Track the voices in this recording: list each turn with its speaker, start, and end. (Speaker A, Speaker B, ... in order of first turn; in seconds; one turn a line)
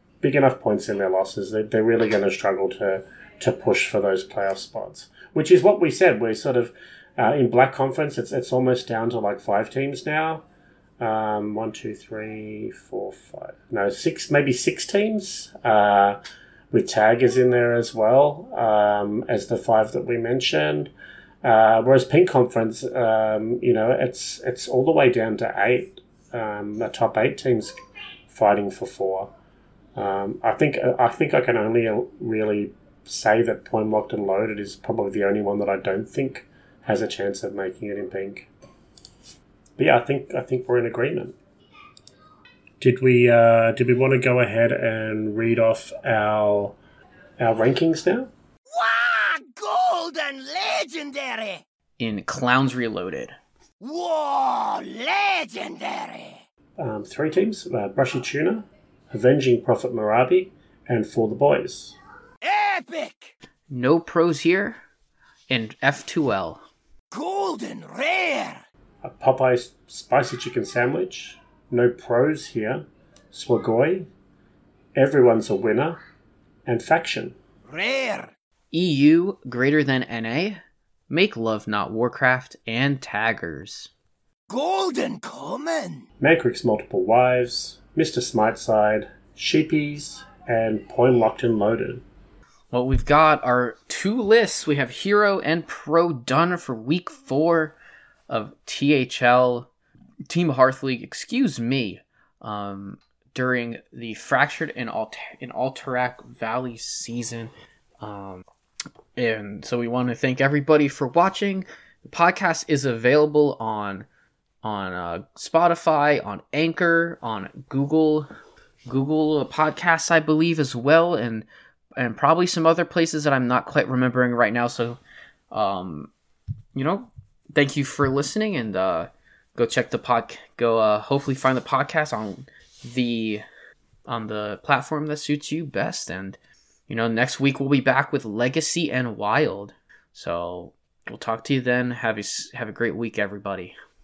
Speaker A: 0.2-10.4
Speaker A: 11.0-16.2
Speaker A: 16.7-20.9
Speaker A: 21.4-27.7
Speaker A: 28.3-29.3
Speaker A: 29.9-38.5
Speaker A: 39.8-41.4
Speaker A: 42.8-46.8
Speaker A: 47.4-48.3
Speaker B: 48.7-51.6
Speaker C: 52.0-53.3
Speaker B: 53.8-56.4
Speaker A: 56.8-62.0
Speaker B: 62.4-63.3
Speaker C: 63.7-64.8
Speaker C: 65.5-66.6
Speaker B: 67.1-68.6
Speaker A: 69.0-74.1
Speaker A: 74.9-76.0
Speaker A: 76.7-77.4
Speaker B: 77.7-78.3
Speaker C: 78.7-83.9
Speaker B: 84.5-86.0
Speaker A: 86.2-92.0
Speaker C: 92.7-97.8
Speaker C: 98.3-99.7
Speaker C: 100.3-108.4
Speaker C: 109.2-114.1
Speaker C: 114.6-118.3
Speaker C: 118.9-125.0
Speaker C: 125.5-126.1
Speaker C: 126.7-133.4
Speaker C: 134.1-143.7